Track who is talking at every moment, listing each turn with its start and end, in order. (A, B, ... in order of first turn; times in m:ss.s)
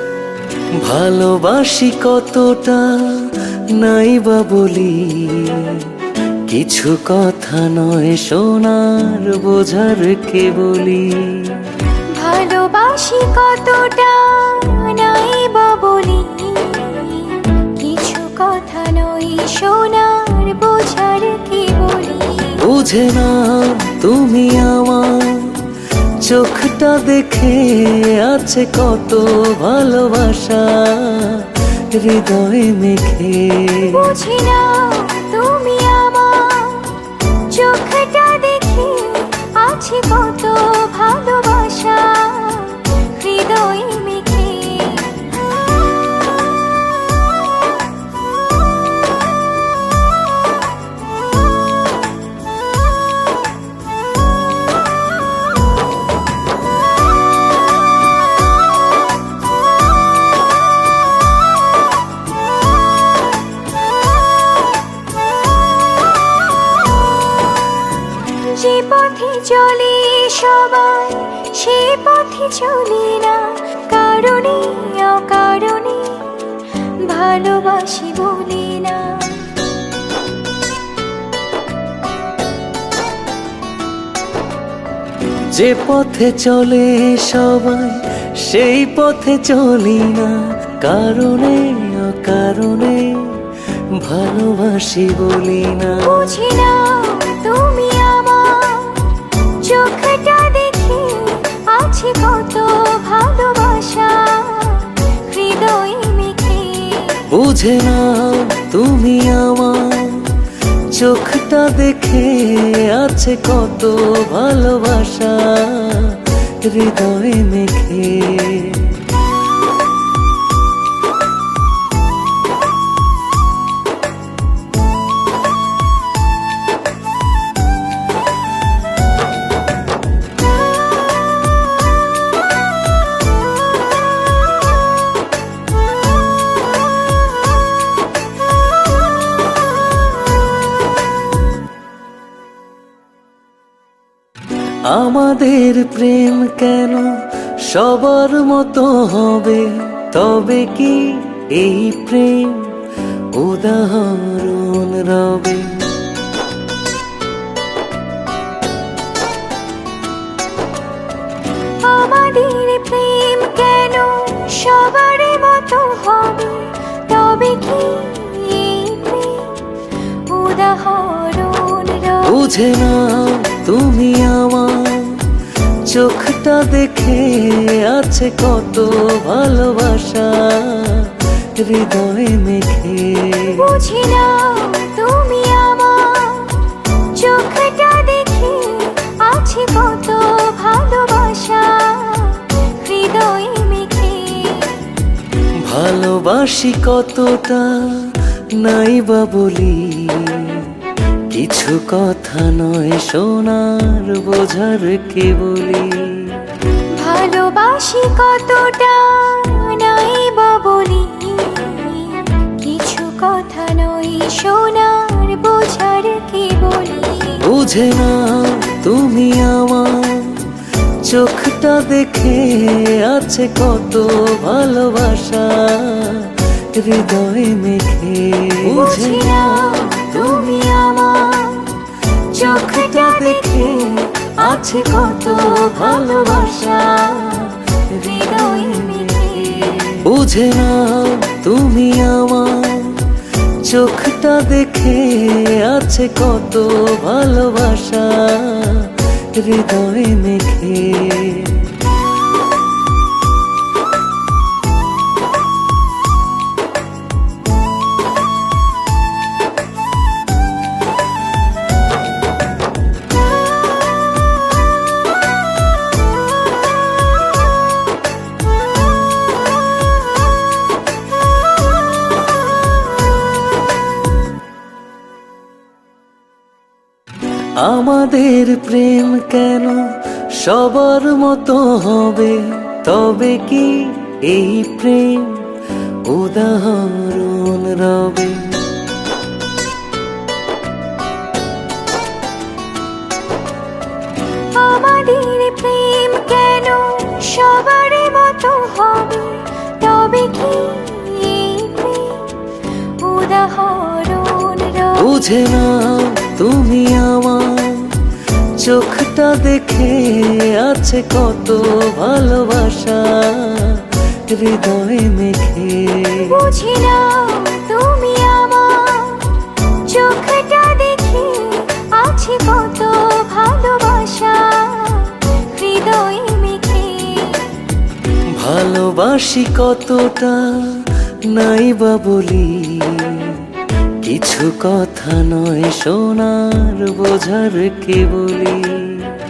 0:00.8-0:05.9 A
0:06.5-0:11.7 A
0:12.1-0:22.6 B
0:22.6-0:34.1 A
0:33.8-0:45.4 B
1:08.3-1:19.5 B
1:25.5-1:36.3 A
1:36.0-1:47.3 B
1:47.3-1:59.0 A
2:24.8-2:32.8 A
2:33.3-2:36.0 A
2:41.8-2:52.4 B
2:52.3-3:03.7 A
3:03.5-3:14.9 B
3:15.6-3:26.5 A
3:26.9-3:37.5 B
3:37.4-3:49.5 A
3:48.7-3:59.9 B
3:59.6-4:11.8 A
4:37.6-4:45.5 A
4:46.0-4:48.7 A
4:54.5-5:05.2 B
5:05.0-5:08.1 A
5:08.6-5:16.4 A
5:16.2-5:27.6 B
5:28.3-5:33.5 A
5:34.0-5:39.2 A